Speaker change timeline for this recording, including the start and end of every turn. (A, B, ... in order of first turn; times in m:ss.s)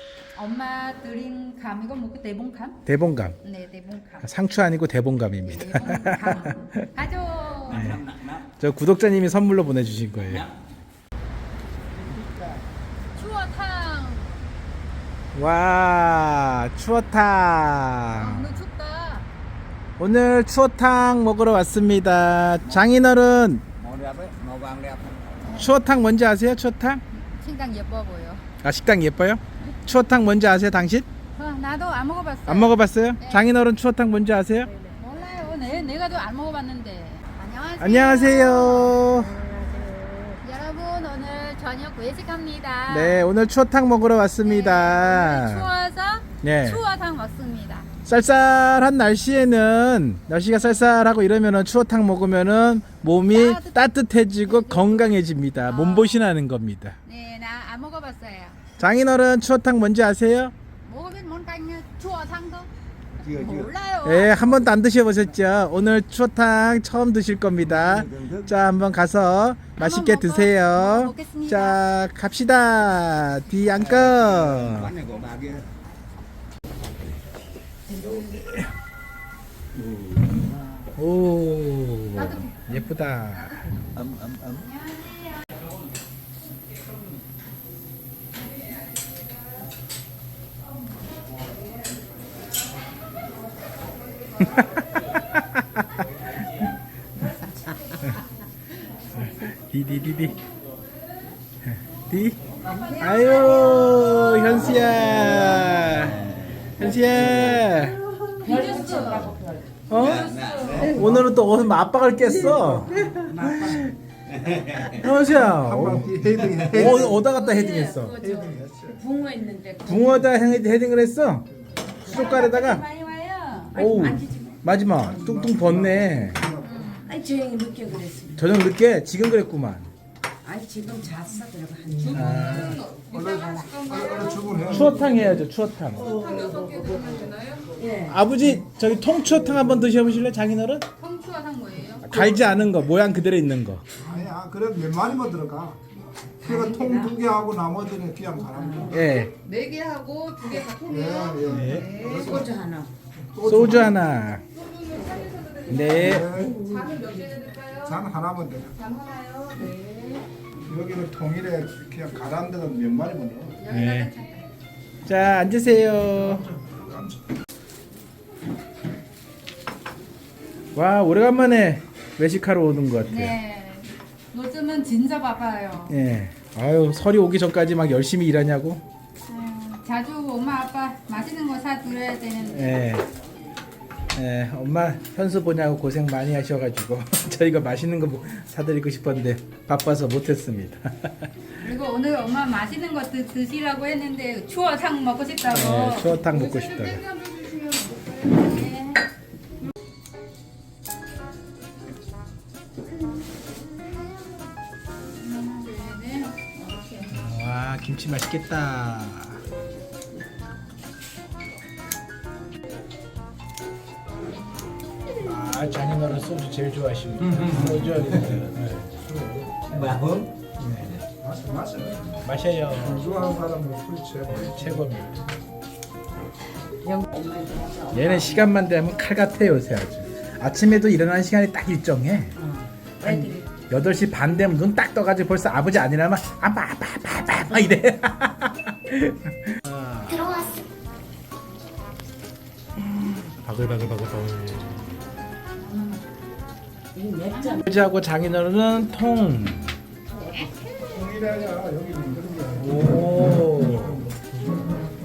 0:00.3-0:02.8 A
0:02.8-0:03.4 B
0:03.4-0:04.3 A
0:04.2-0:06.8 B
0:05.4-0:07.8 A
0:07.7-0:08.5 C
0:07.7-0:08.0 B
0:08.6-0:10.4 B
0:10.2-0:10.6 C
0:11.9-0:12.6 C
0:13.1-0:14.4 A
0:15.3-0:18.6 B
0:18.1-0:19.3 A
0:20.0-0:23.6 B
0:23.8-0:25.4 C
0:25.4-0:25.7 A
0:25.5-0:27.0 B
0:27.1-0:28.4 A
0:28.6-0:31.1 B
0:31.3-0:33.5 A
0:32.4-0:34.7 B
0:35.0-0:39.0 A
0:37.8-0:39.4 B
0:39.4-0:40.4 D
0:40.4-0:43.2 A
0:42.9-0:45.7 B
0:44.4-0:47.9 A
0:46.4-0:46.8 B
0:48.0-0:57.0 B
0:53.3-0:53.8 A
0:54.4-0:56.3 A
0:57.1-0:58.6 A
0:58.8-1:00.5 B
1:00.8-1:02.7 A
1:03.2-1:03.7 C
1:03.3-1:04.5 A
1:04.0-1:14.9 B
1:04.3-1:05.3 C
1:07.6-1:08.5 C
1:09.8-1:11.8 A
1:13.8-1:15.7 C
1:17.9-1:18.7 B
1:19.8-1:20.5 C
1:21.0-1:23.7 B
1:22.1-1:22.8 A
1:23.9-1:24.6 C
1:24.6-1:25.3 A
1:34.4-1:36.0 B
1:39.1-1:40.4 B
1:41.6-1:42.4 B
1:42.6-1:44.8 A
1:43.0-1:46.2 B
1:44.8-1:47.6 C
1:46.8-1:48.0 B
1:48.4-1:49.8 D
1:48.4-1:49.3 A
1:49.9-1:53.9 B
1:49.9-1:50.9 A
1:49.9-1:51.0 C
1:50.9-1:51.2 E
1:52.4-1:53.9 D
1:54.2-1:55.1 C
1:54.7-1:58.3 B
1:55.2-1:57.2 E
1:57.3-1:58.0 A
1:57.4-2:00.3 D
1:58.2-1:59.0 E
1:59.8-2:01.4 B
2:02.0-2:02.8 B
2:02.0-2:03.8 A
2:03.7-2:04.6 D
2:03.7-2:06.4 B
2:04.9-2:06.9 E
2:06.6-2:07.1 A
2:07.0-2:08.5 D
2:08.4-2:09.9 B
2:10.4-2:12.6 D
2:12.0-2:14.8 A
2:12.1-2:12.8 B
2:13.1-2:15.2 E
2:14.6-2:16.1 B
2:16.0-2:17.7 A
2:17.7-2:18.2 D
2:18.1-2:20.8 B
2:21.0-2:22.2 A
2:22.0-2:23.8 B
2:24.0-2:25.8 E
2:26.4-2:29.0 E
2:26.4-2:27.2 D
2:28.4-2:28.9 D
2:28.9-2:29.3 B
2:29.0-2:32.3 A
2:30.9-2:32.6 E
2:31.4-2:31.9 B
2:31.8-2:32.9 D
2:33.3-2:34.0 E
2:33.4-2:34.4 B
2:34.6-2:38.0 A
2:35.7-2:36.3 B
2:35.8-2:36.6 E
2:36.1-2:37.1 D
2:37.8-2:38.8 E
2:38.7-2:40.2 A
2:40.6-2:43.6 E
2:43.6-2:44.4 A
2:43.7-2:44.1 B
2:45.0-2:46.4 B
2:46.1-2:47.2 E
2:50.7-2:53.3 B
2:53.1-2:55.9 A
2:55.9-2:58.8 B
2:59.3-3:02.8 A
3:02.5-3:03.1 B
3:04.1-3:11.3 B
3:11.6-3:19.0 A
3:15.5-3:17.0 B
3:25.2-3:27.1 A
3:27.1-3:29.4 B
3:35.2-3:38.8 B
3:37.2-3:38.5 C
3:37.6-3:39.6 E
3:39.7-3:40.3 C
3:40.6-3:40.9 B
3:41.1-3:42.2 E
3:42.2-3:43.1 B
3:42.7-3:44.8 E
3:44.3-3:45.2 B
3:46.8-3:48.5 D
3:47.9-3:52.3 B
3:52.4-3:53.5 D
3:53.0-4:00.4 B
4:02.8-4:04.9 B
4:05.6-4:06.0 A
4:06.9-4:07.6 D
4:07.3-4:07.6 A
4:07.6-4:09.7 B
4:10.0-4:10.8 D
4:10.3-4:10.9 A
4:10.9-4:14.5 E
4:12.6-4:14.0 B